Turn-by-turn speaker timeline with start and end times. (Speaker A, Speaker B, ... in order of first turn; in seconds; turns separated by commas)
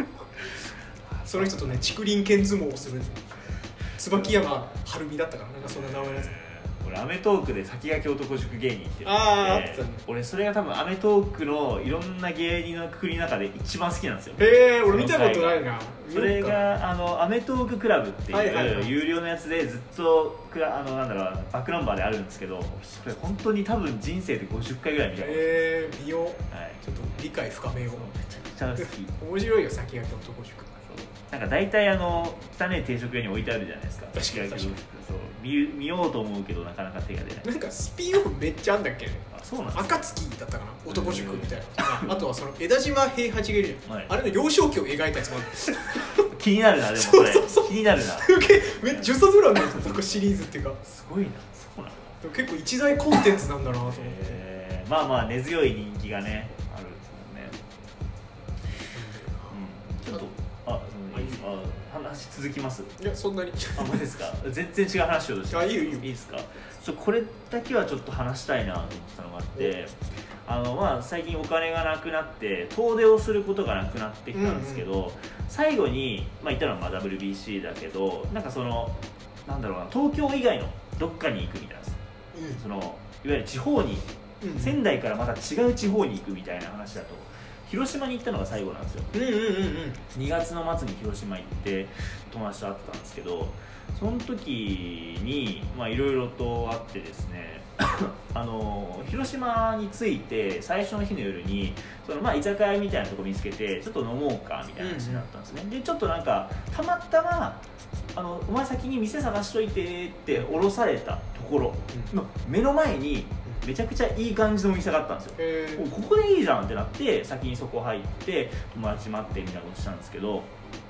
Speaker A: 0.4-1.9, Speaker B: 1.3-6.3, Speaker A: 5.6-25.9, Speaker B: 9.0-10.0, Speaker B: 14.4-16.8, Speaker B: 18.3-18.9, Speaker B: 25.2-28.1, Speaker A: 26.5-26.8, Speaker A: 27.8-29.1, Speaker B: 28.8-30.7, Speaker A: 30.8-37.5, Speaker B: 34.1-34.8, Speaker B: 37.4-46.3, Speaker A: 39.3-40.0, Speaker A: 40.9-42.2, Speaker A: 43.9-44.1, Speaker A: 46.2-50.2, Speaker B: 46.9-50.8, Speaker A: 50.8-52.2, Speaker B: 52.2-54.4, Speaker A: 53.8-57.6, Speaker B: 58.9-59.6, Speaker A: 59.5-63.0, Speaker B: 61.1-61.4, Speaker B: 63.0-64.1, Speaker A: 63.7-82.0, Speaker B: 65.5-66.1, Speaker B: 74.3-74.9, Speaker B: 82.3-82.6, Speaker A: 82.5-89.1, Speaker B: 84.4-84.8, Speaker B: 89.1-90.0, Speaker A: 90.1-120.5, Speaker B: 104.8-105.3, Speaker B: 110.3-110.6, Speaker B: 115.4-115.9